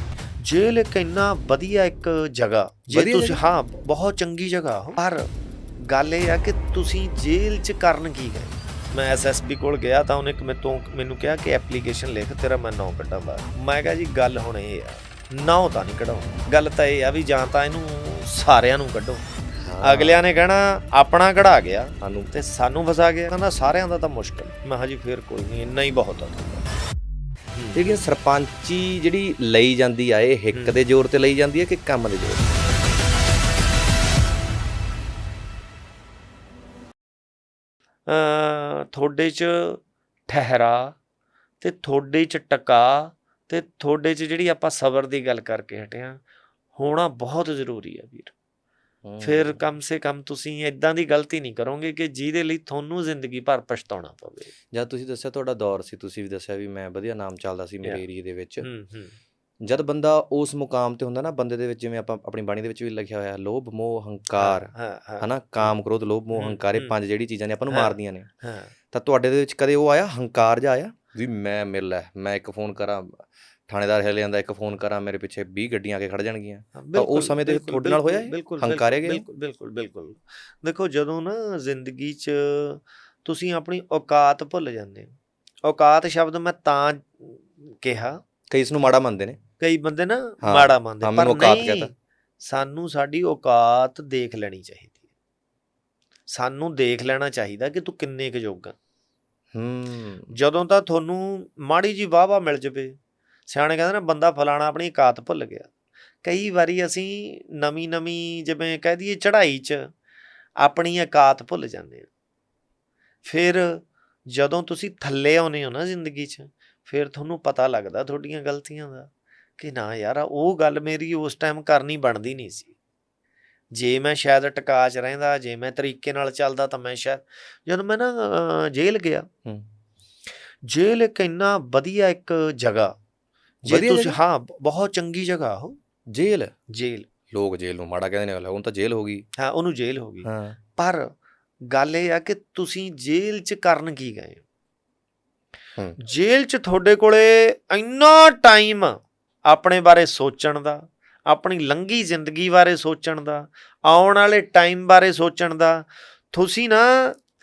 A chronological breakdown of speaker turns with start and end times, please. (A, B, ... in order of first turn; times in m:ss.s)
0:00.4-0:19.2 A
0:02.9-0:03.4 B
0:19.6-0:20.2 B
0:19.8-0:26.6 A
0:22.0-0:22.3 B
0:27.5-0:28.0 A
0:27.7-0:32.5 B
0:38.1-0:41.0 A
0:41.6-0:46.2 A
0:46.8-0:48.3 A
0:49.0-0:49.6 B
0:49.2-0:54.5 A
0:54.7-0:58.7 B
0:58.6-0:59.1 A
0:59.6-1:08.3 B
1:04.4-1:05.7 A
1:06.3-1:06.9 A
1:07.7-1:08.7 A
1:08.9-1:19.2 B
1:16.7-1:25.1 A
1:25.6-1:28.2 A
1:28.5-1:29.4 B
1:29.6-1:34.9 A
1:30.4-1:31.9 B
1:36.3-1:38.7 A
1:39.5-1:40.3 B
1:40.3-1:45.7 A
1:46.2-1:49.9 A
1:50.6-1:52.1 A
1:53.2-2:02.7 A
2:03.7-2:09.3 A
2:10.6-2:12.9 A
2:13.6-2:15.8 A
2:13.6-2:14.2 B
2:16.1-2:16.5 B
2:16.7-2:17.1 A
2:17.3-2:19.2 B
2:19.4-2:21.1 A
2:20.2-2:20.6 B
2:21.7-2:24.4 A
2:26.0-2:37.2 A